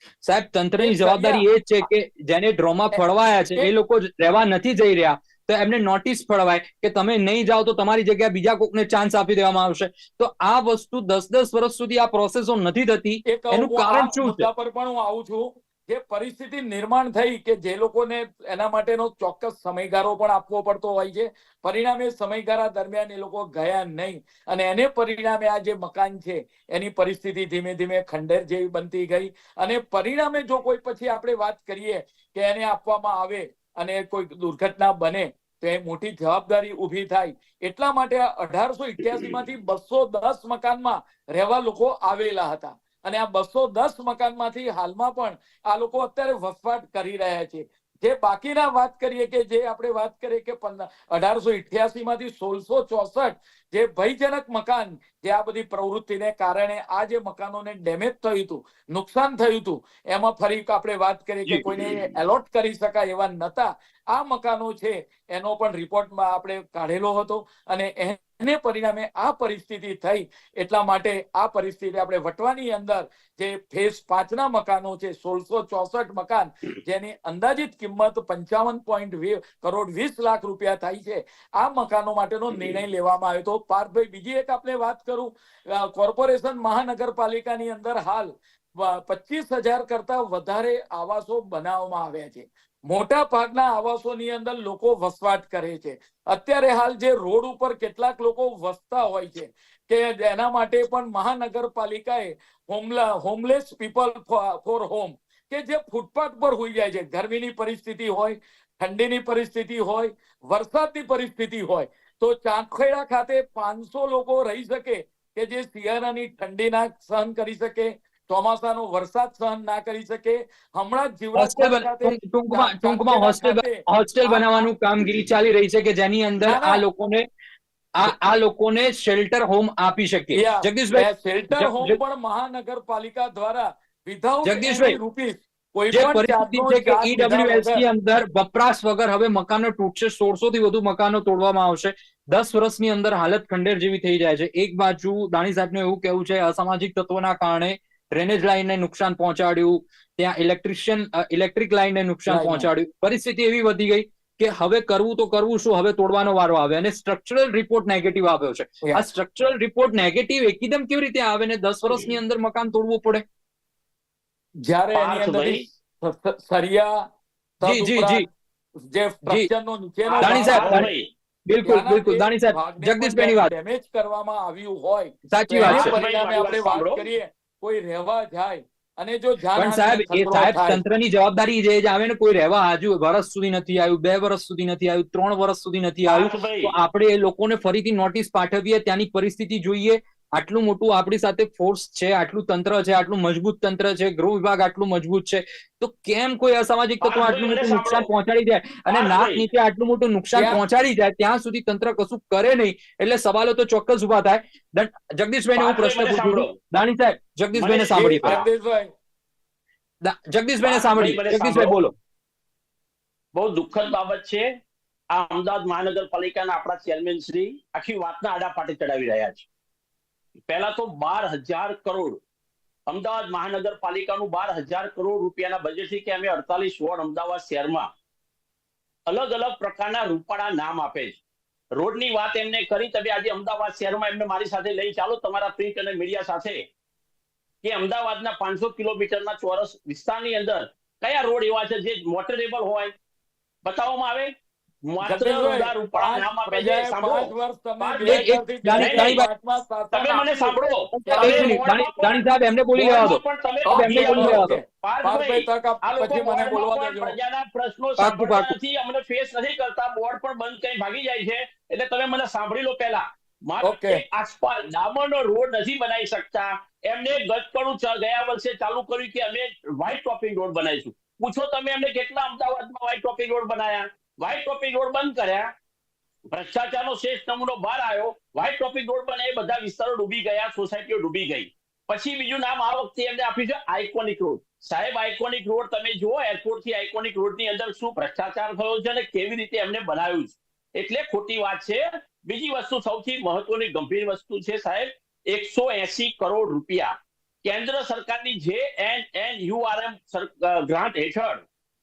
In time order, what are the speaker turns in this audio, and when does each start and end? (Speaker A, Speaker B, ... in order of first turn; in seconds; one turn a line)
Speaker A: 0.2-14.5
Speaker B: 0.8-1.4
Speaker B: 13.3-124.7
Speaker C: 61.5-62.1
Speaker A: 121.3-127.3
Speaker B: 126.4-126.8
Speaker A: 128.0-132.0
Speaker B: 130.3-137.8
Speaker A: 134.4-135.0
Speaker A: 135.9-163.2
Speaker B: 152.3-152.7
Speaker B: 164.6-166.9
Speaker C: 164.9-165.6
Speaker B: 167.6-168.3
Speaker A: 167.6-168.2
Speaker B: 168.8-170.9
Speaker C: 170.1-171.1
Speaker A: 170.2-170.9
Speaker A: 171.5-173.5
Speaker B: 171.6-180.8
Speaker A: 175.3-175.9
Speaker C: 175.6-177.0
Speaker A: 179.5-208.4
Speaker C: 186.1-186.7
Speaker C: 197.0-198.1
Speaker C: 198.9-199.4
Speaker B: 200.3-200.6
Speaker C: 205.6-206.5
Speaker C: 207.5-208.5
Speaker B: 207.9-208.9
Speaker A: 210.0-211.9
Speaker C: 210.6-211.8
Speaker C: 213.3-214.5
Speaker C: 215.1-219.5
Speaker C: 220.5-222.2
Speaker C: 222.9-227.9
Speaker C: 229.1-231.2
Speaker C: 231.7-236.6
Speaker C: 237.6-242.9
Speaker C: 243.6-244.3
Speaker C: 244.9-249.2
Speaker B: 245.0-251.6
Speaker A: 248.0-249.3
Speaker C: 249.9-275.5
Speaker A: 250.9-253.2
Speaker B: 253.7-257.2
Speaker A: 253.7-254.6
Speaker A: 258.0-258.5
Speaker B: 263.6-264.0
Speaker C: 276.3-296.9
Speaker C: 297.4-301.4